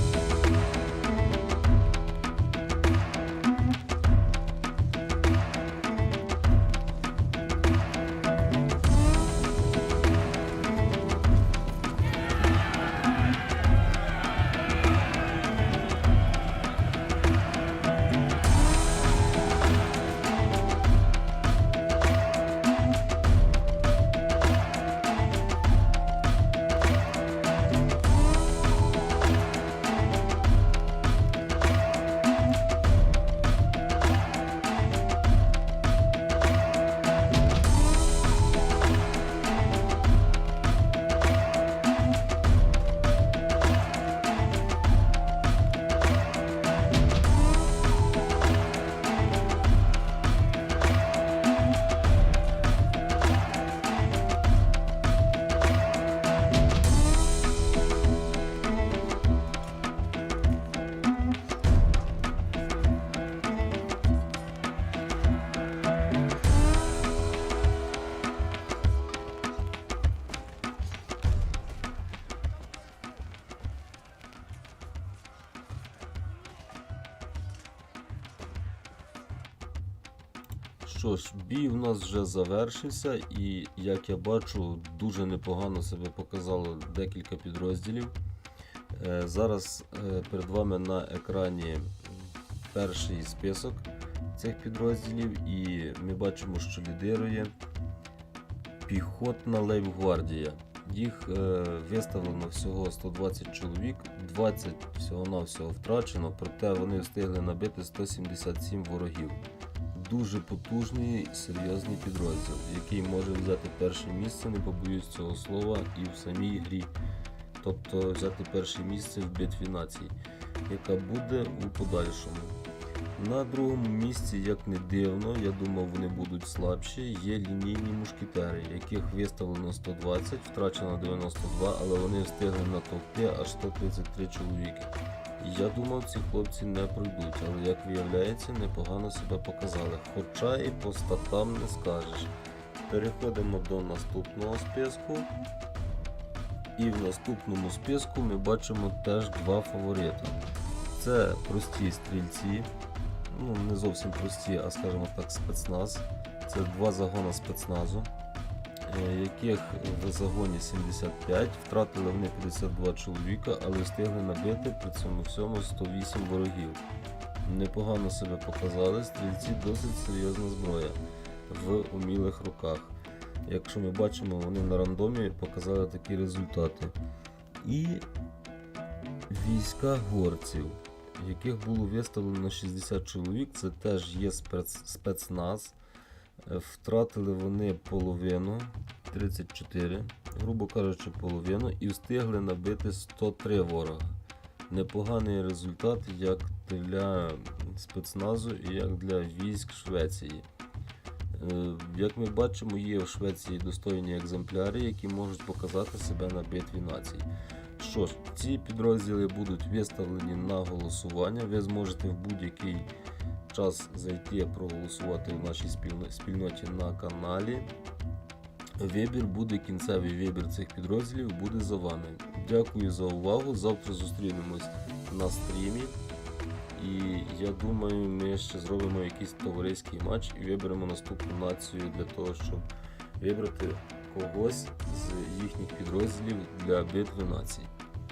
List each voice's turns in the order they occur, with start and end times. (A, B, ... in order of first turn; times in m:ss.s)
1:20.8-1:28.2 A
1:28.9-1:37.5 A
1:38.8-1:49.4 A
1:49.9-1:56.9 A
1:57.6-2:00.2 A
2:00.7-2:02.6 A
2:03.2-2:22.3 A
2:22.9-2:25.3 A
2:26.8-2:30.4 A
2:31.0-2:32.7 A
2:33.2-2:38.1 A
2:38.8-2:46.8 A
2:47.4-2:57.0 A
2:57.6-2:58.1 A
2:59.3-3:05.8 A
3:06.4-3:14.2 A
3:14.7-3:20.5 A
3:21.3-3:32.9 A
3:33.5-3:37.7 A
3:38.8-3:46.0 A
3:46.7-3:52.7 A
3:53.2-3:57.7 A